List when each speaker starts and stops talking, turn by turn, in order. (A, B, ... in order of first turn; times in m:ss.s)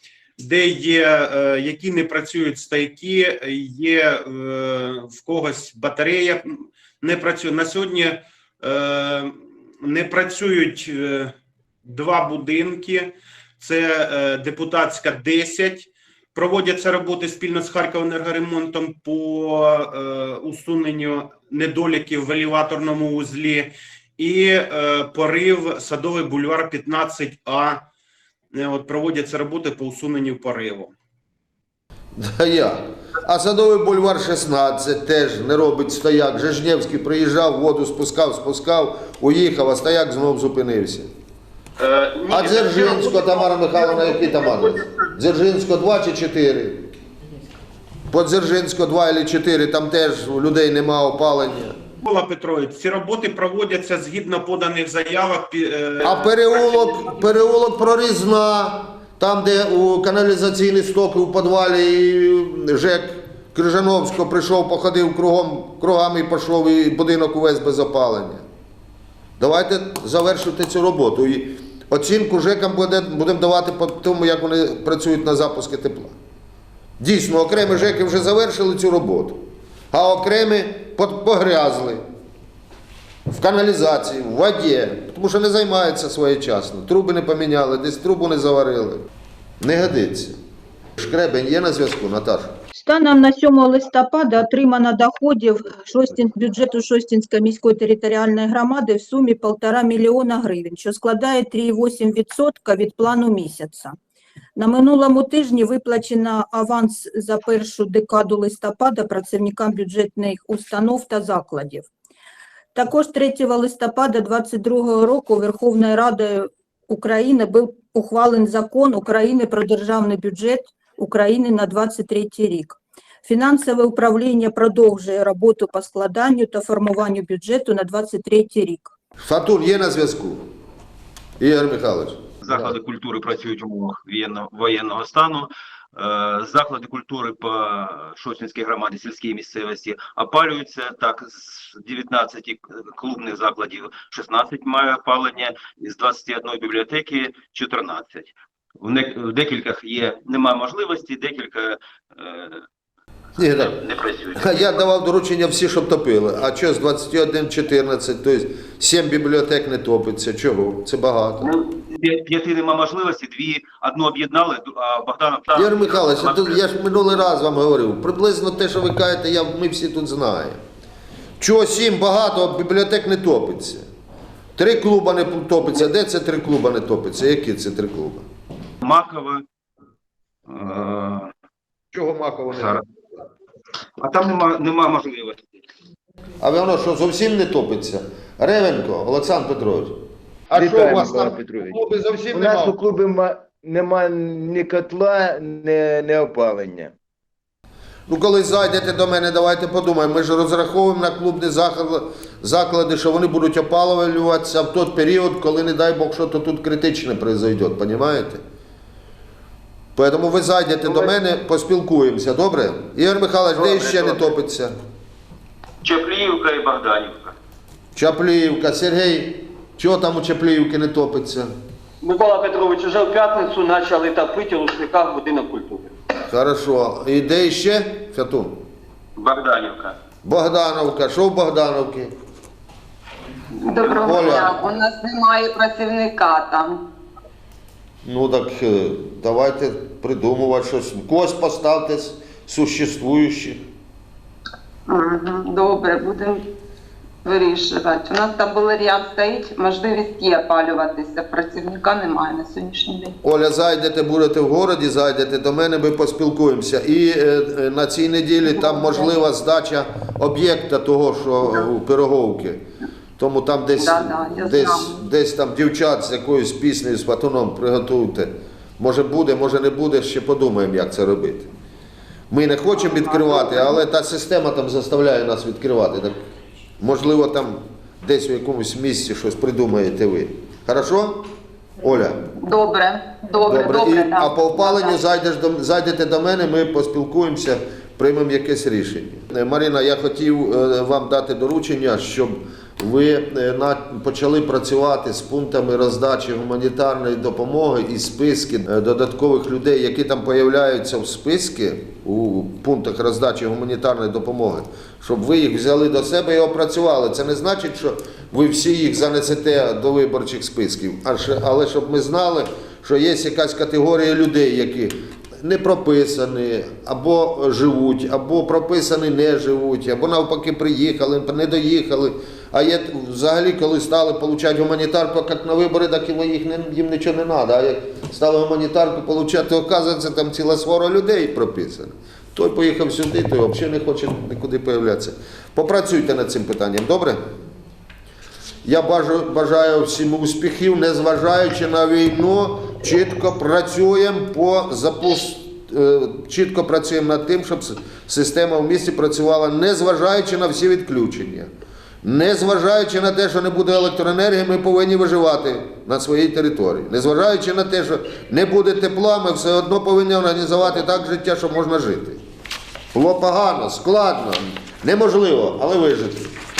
0:00.4-0:27.8 A
0:28.5-0:30.9 A
0:32.2-0:41.1 B
0:41.8-0:45.0 C
0:42.3-0:46.9 B
0:48.1-0:51.8 B
0:52.0-0:56.1 A
0:56.0-1:08.4 B
1:09.4-1:16.2 B
1:17.0-1:22.0 B
1:23.3-1:29.0 B
1:29.6-1:30.4 B
1:31.0-1:32.6 B
1:32.7-1:44.0 D
1:44.6-1:51.9 D
1:52.8-2:08.9 D
2:09.2-2:10.4 B
2:11.4-2:12.7 B
2:12.4-2:32.6 E
2:33.4-2:33.8 B
2:33.6-2:34.6 E
2:34.3-2:41.5 B
2:41.4-2:46.7 E
2:45.5-2:50.6 B
2:51.4-2:53.9 B
2:54.6-2:58.2 B
2:58.8-2:59.4 E
3:00.5-3:01.3 E
3:01.9-3:02.8 B
3:02.5-3:02.8 E
3:04.0-3:05.6 E
3:06.4-3:12.8 B
3:10.5-3:16.9 F
3:18.1-3:28.4 B
3:30.0-3:34.7 B
3:33.6-3:34.2 E
3:35.8-3:37.4 E
3:38.0-3:41.5 B
3:42.0-3:45.9 C
3:46.3-3:48.6 B
3:49.2-3:50.0 E
3:50.2-3:52.1 B
3:53.6-3:56.8 G
3:53.8-3:54.2 E
3:54.0-3:54.6 B
3:58.0-4:03.7 B
4:04.9-4:06.4 G
4:07.2-4:13.2 G
4:13.2-4:22.6 B
4:18.4-4:19.1 G
4:23.2-4:31.5 B
4:23.8-4:25.0 G
4:32.3-4:36.2 B
4:33.1-4:33.6 G
4:36.8-4:41.3 B
4:41.8-4:42.2 B
4:42.4-4:45.0 G
4:43.4-5:37.2 B
5:38.6-5:51.5 B
5:52.0-6:02.2 B
6:02.9-6:06.4 B